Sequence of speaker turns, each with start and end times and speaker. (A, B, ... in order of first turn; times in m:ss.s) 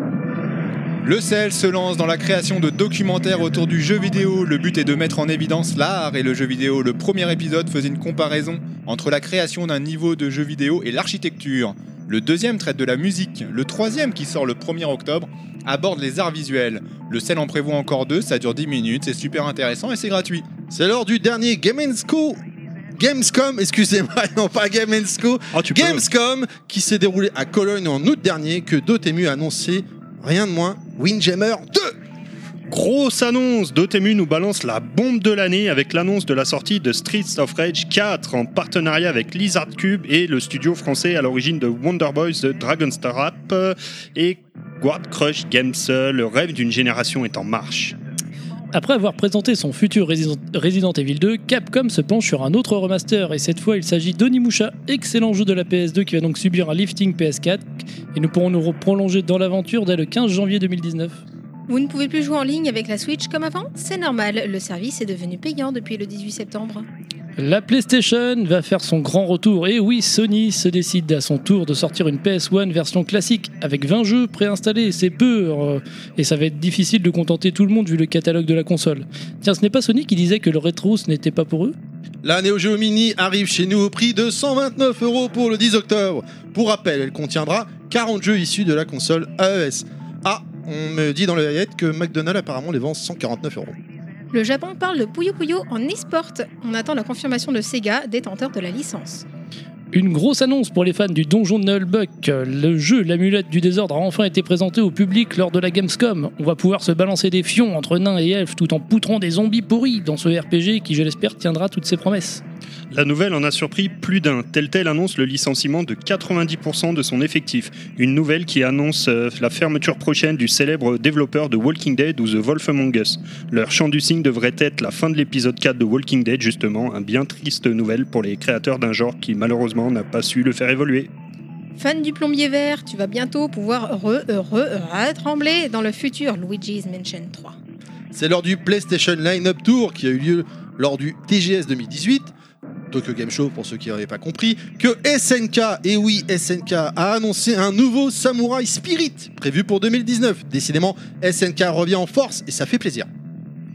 0:01.0-0:20.5 A
0:20.7-0:22.4 B
0:23.0-0:31.9 B
0:25.5-0:26.0 C
0:32.7-0:47.9 C
0:48.7-1:01.2 D
1:01.7-1:06.8 E
1:07.4-1:21.8 D
1:22.2-1:33.8 B
1:34.3-1:39.2 E
1:39.9-1:52.4 D
1:52.9-2:11.1 C
2:11.8-2:17.6 E
2:18.1-2:22.3 B
2:22.9-2:33.1 B